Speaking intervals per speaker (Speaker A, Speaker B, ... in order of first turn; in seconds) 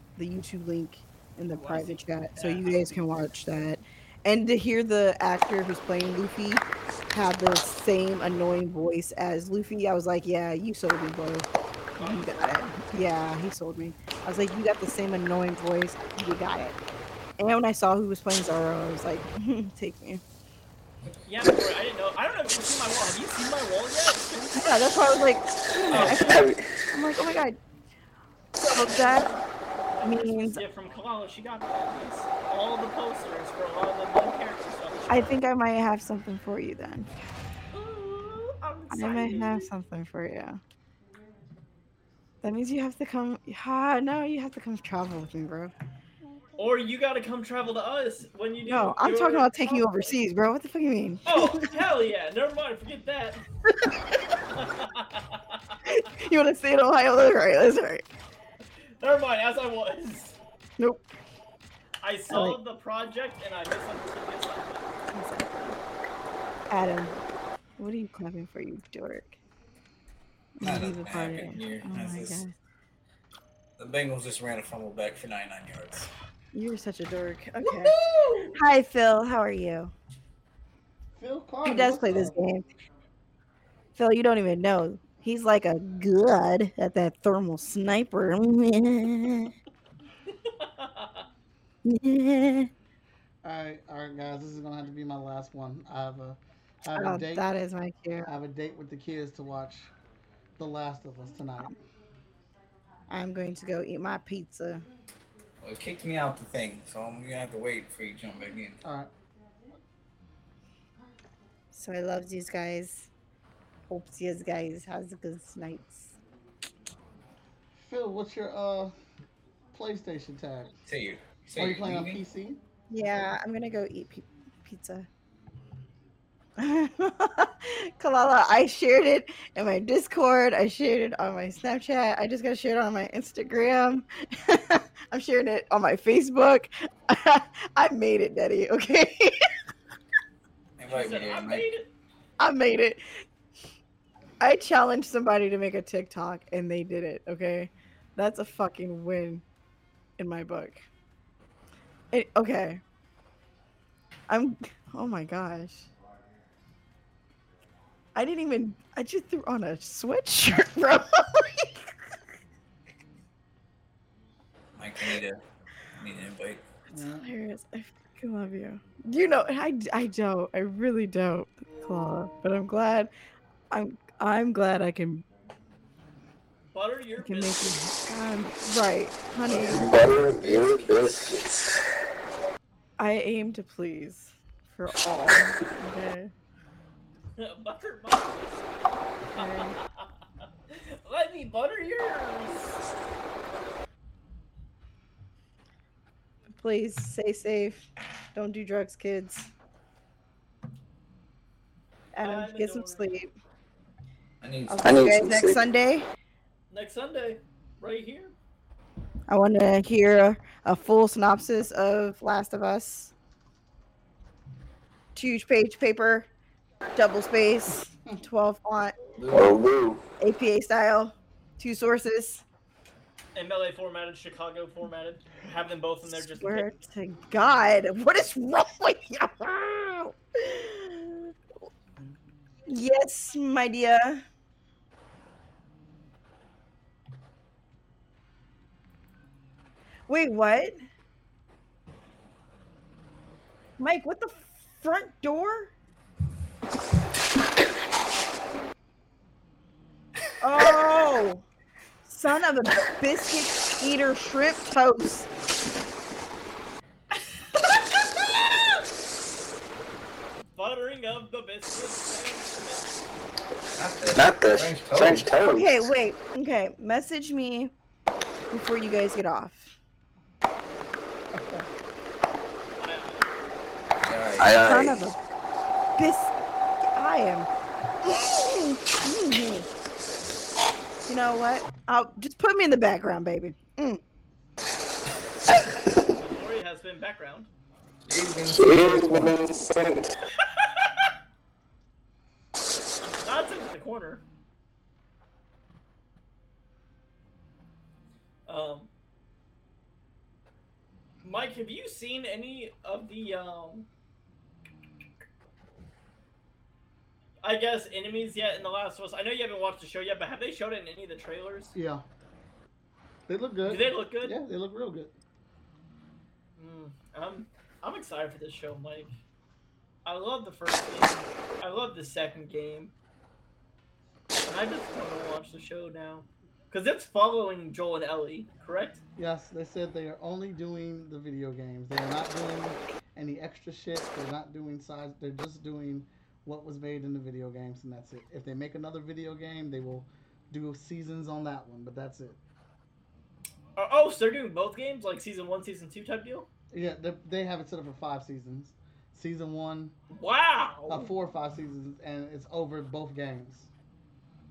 Speaker A: 0.2-11.5, 12.0-16.7, 17.4-20.2, 24.5-27.6, 28.6-29.3, 30.0-30.6, 35.1-37.1, 38.9-40.6, 42.4-45.7, 48.6-51.9, 55.8-58.0, 60.8-61.1, 62.3-62.6, 65.1-65.8, 66.7-67.2, 67.8-69.4, 70.6-72.5, 76.5-78.0, 78.5-79.9, 81.6-82.6, 84.0-89.5, 91.8-92.7, 96.9-98.3, 103.1-104.8, 111.7-113.1, 113.9-116.2, 122.9-125.1, 126.6-139.4, 142.4-143.0, 144.4-149.4, 150.2-150.8, 152.1-152.8, 154.3-155.9, 158.1-161.9, 167.0-173.1, 173.7-175.3, 177.2-179.9, 183.0-186.3, 189.3-189.8, 196.6-199.5, 202.1-203.3, 204.7-206.1, 209.3-213.1, 215.1-216.3, 216.9-218.9, 220.2-222.4, 226.0-231.3, 232.7-234.2, 240.1-240.8, 243.8-245.7, 250.4-251.4, 252.0-255.3, 265.3-267.7, 268.5-269.7, 274.6-275.1, 276.0-276.3, 276.9-277.5, 278.0-279.6, 281.1-284.0
Speaker B: 1.5-2.9, 12.0-12.7, 21.2-24.7, 25.9-26.5, 28.8-35.4, 37.7-39.7, 46.6-50.1, 51.2-53.4, 54.5-55.8, 59.0-60.4, 62.0-64.9, 77.6-78.6, 90.4-91.2, 140.9-141.9, 176.7-177.7, 187.4-188.6, 189.3-190.1, 190.7-192.8, 202.2-203.2, 206.7-208.3, 223.3-226.7, 260.5-263.0, 272.8-273.3, 286.1-287.5, 290.5-290.9, 293.2-294.2, 298.5-298.9, 301.2-303.9, 307.4-311.7, 313.6-314.4, 316.6-319.1, 320.1-322.9, 324.4-329.0, 343.8-346.5, 350.1-351.1
Speaker C: 25.9-26.2, 70.6-72.4, 73.8-76.1, 105.6-108.8, 120.8-122.2, 140.8-141.7, 164.8-165.4, 166.0-166.6, 179.5-181.2, 204.4-205.0, 219.2-219.7, 263.8-265.3, 274.1-274.6, 288.1-289.4
Speaker D: 81.2-82.4, 93.4-97.5, 98.2-99.9, 100.6-101.7, 108.8-109.1, 117.8-118.9, 119.7-120.7, 121.5-122.6, 166.9-167.3, 311.7-312.0, 313.3-315.1, 329.1-342.4, 346.7-349.9, 350.9-353.7
Speaker E: 179.8-181.5, 204.8-205.6, 219.3-220.0, 264.1-265.7, 274.4-274.9, 288.5-290.1